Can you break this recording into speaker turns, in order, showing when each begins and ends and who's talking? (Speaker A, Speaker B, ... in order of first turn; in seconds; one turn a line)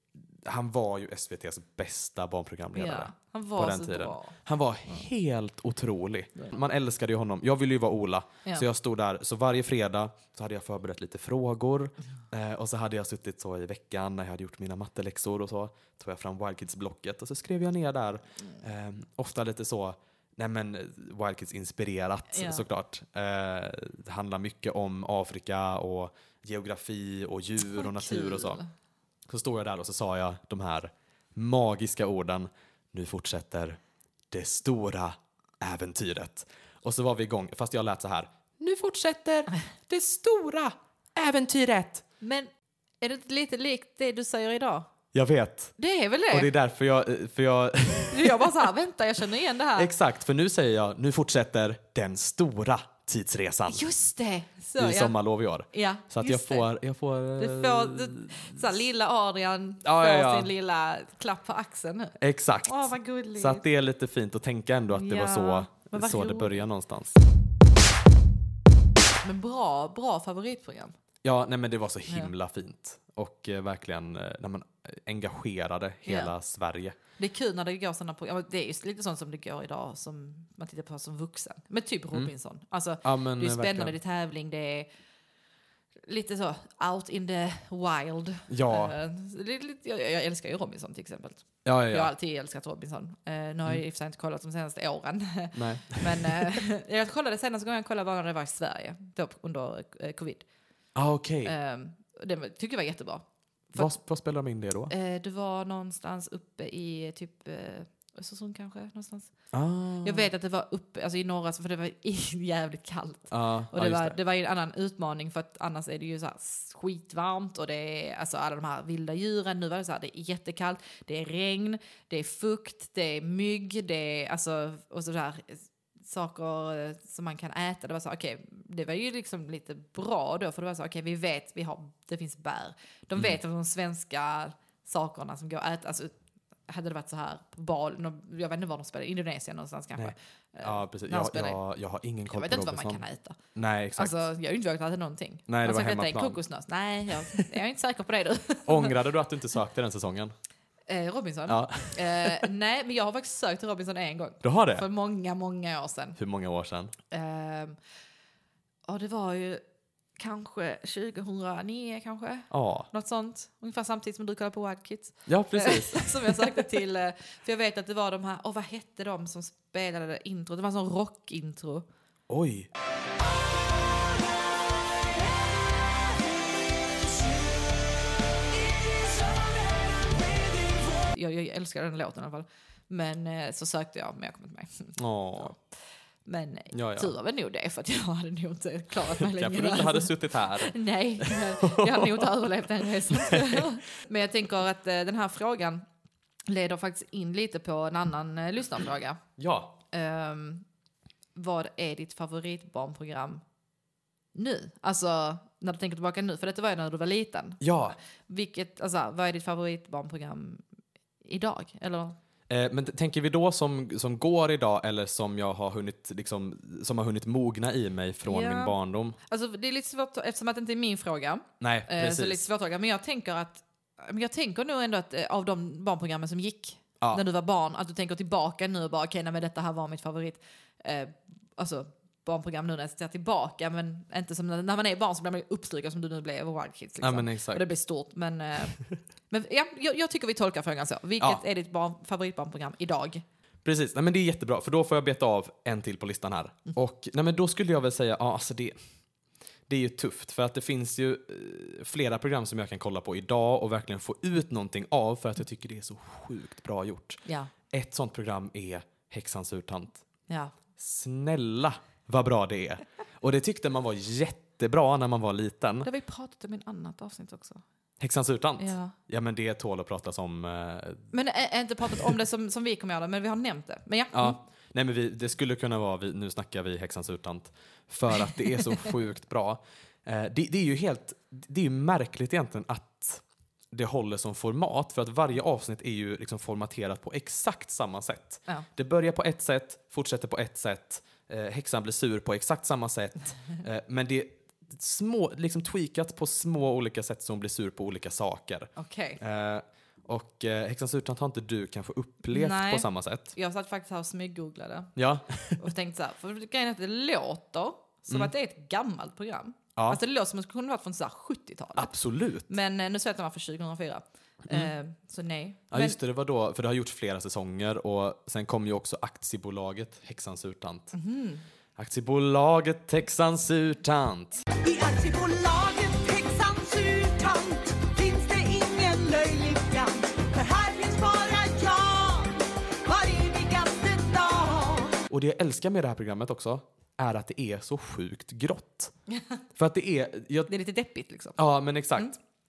Speaker A: 0.4-28.6
Speaker B: 2.8-4.4
Speaker B: 22.3-22.7
Speaker B: 27.6-28.7
Speaker A: 29.3-33.8
Speaker A: 34.3-42.0
Speaker B: 42.2-42.5
Speaker B: 43.0-44.9
Speaker A: 45.1-45.7
Speaker B: 45.8-46.5
Speaker A: 46.3-48.7
Speaker B: 48.1-49.9
Speaker A: 49.8-53.9
Speaker B: 53.7-55.2
Speaker A: 54.8-58.6
Speaker B: 55.7-56.7
Speaker B: 57.4-63.6
Speaker A: 59.8-60.5
Speaker A: 62.2-67.2
Speaker B: 64.9-66.7
Speaker B: 69.2-70.9
Speaker A: 71.2-77.0
Speaker B: 76.1-76.3
Speaker B: 77.2-84.9
Speaker A: 83.0-84.0
Speaker B: 86.1-100.5
Speaker A: 88.5-88.9
Speaker A: 91.7-92.1
Speaker A: 95.5-96.6
Speaker A: 101.0-101.5
Speaker B: 101.4-103.9
Speaker A: 103.8-104.9
Speaker B: 104.9-109.3
Speaker A: 109.5-110.3
Speaker B: 110.0-136.1
Speaker A: 113.3-114.2
Speaker B: 136.7-141.6
Speaker A: 139.9-143.0
Speaker B: 142.3-143.4
Speaker A: 143.6-144.2
Speaker B: 144.0-149.0
Speaker A: 145.5-146.4
Speaker A: 148.7-150.3
Speaker B: 150.9-156.2
Speaker A: 151.5-152.5
Speaker A: 154.4-154.9
Speaker A: 156.2-156.9
Speaker B: 157.1-157.8
Speaker B: 158.9-159.6
Speaker B: 160.2-171.9
Speaker A: 162.5-162.9
Speaker A: 165.3-166.6
Speaker A: 172.3-172.7
Speaker B: 181.1-185.6
Speaker A: 185.0-185.6
Speaker B: 186.3-195.9
Speaker A: 186.7-187.1
Speaker A: 189.2-193.7
Speaker B: 196.5-199.2
Speaker A: 199.4-199.8
Speaker B: 199.9-200.7
Speaker B: 201.3-203.4
Speaker B: 204.3-210.6
Speaker A: 207.6-208.0
Speaker B: 211.2-212.2
Speaker A: 212.5-219.2
Speaker B: 218.3-218.8
Speaker B: 219.3-238.8
Speaker A: 221.6-222.4
Speaker A: 237.0-237.6
Speaker B: 239.3-243.2
Speaker A: 243.6-248.8
Speaker A: 249.7-260.1
Speaker B: 257.2-257.5
Speaker B: 260.3-260.5
Speaker A: 260.8-265.9
Speaker B: 265.8-267.6
Speaker A: 268.0-271.1
Speaker B: 268.6-268.9
Speaker B: 271.1-274.4
Speaker A: 274.1-303.3
Speaker B: 298.8-299.2
Speaker B: 302.3-304.9
Speaker A: 305.0-305.7
Speaker B: 305.6-311.9
Speaker A: 311.8-312.5
Speaker B: 312.5-316.0
Speaker A: 314.5-314.7
Speaker A: 315.7-320.9
Speaker B: 320.9-321.4
Speaker A: 321.8-324.4
Speaker C: 324.6-335.0
Speaker A: 335.1-338.9
Speaker A: 339.6-340.5
Speaker B: 340.5-341.4
Speaker A: 341.4-342.2